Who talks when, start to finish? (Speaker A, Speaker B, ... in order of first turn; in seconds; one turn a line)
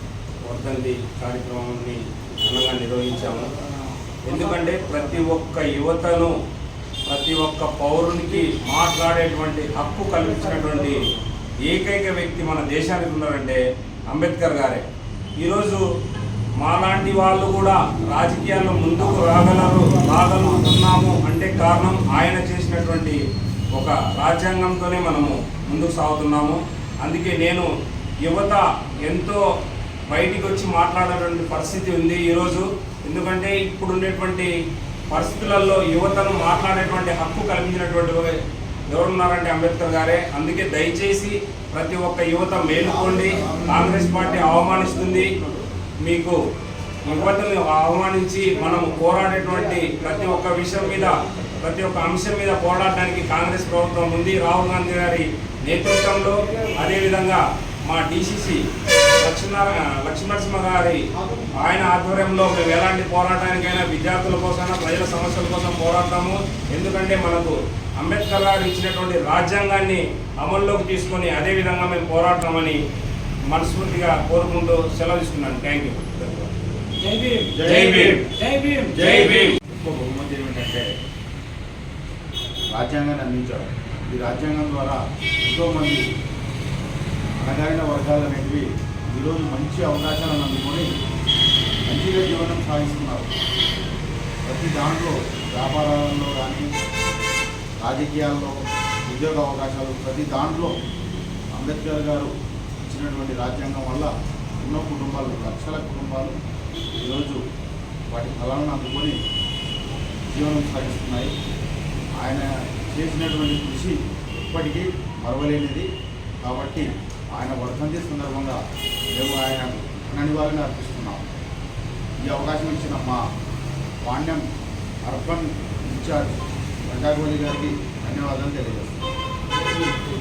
Speaker A: 0.4-3.5
Speaker A: 4.2-6.3
Speaker A: 7.0-11.1
Speaker A: 11.6-14.8
Speaker A: 15.4-15.8
Speaker A: 16.6-23.2
Speaker A: 23.7-27.7
Speaker A: 28.2-29.4
Speaker A: 30.1-34.5
Speaker A: 35.1-45.4
Speaker A: 46.0-46.4
Speaker A: 47.0-72.8
Speaker A: 73.5-76.5
Speaker B: 77.0-79.5
Speaker C: 77.5-78.3
Speaker A: 77.6-78.1
Speaker C: 78.9-80.9
Speaker A: 79.0-79.5
Speaker C: 82.7-86.0
Speaker C: 87.4-90.9
Speaker C: 91.8-93.3
Speaker C: 94.4-96.7
Speaker C: 97.8-100.7
Speaker C: 101.5-102.3
Speaker C: 102.9-106.3
Speaker C: 107.0-107.4
Speaker C: 108.1-109.2
Speaker C: 110.3-111.3
Speaker C: 112.2-115.9
Speaker C: 116.4-118.6
Speaker C: 119.1-121.2
Speaker C: 122.2-123.2
Speaker C: 124.0-124.4
Speaker C: 125.0-128.9
Speaker B: 129.7-130.0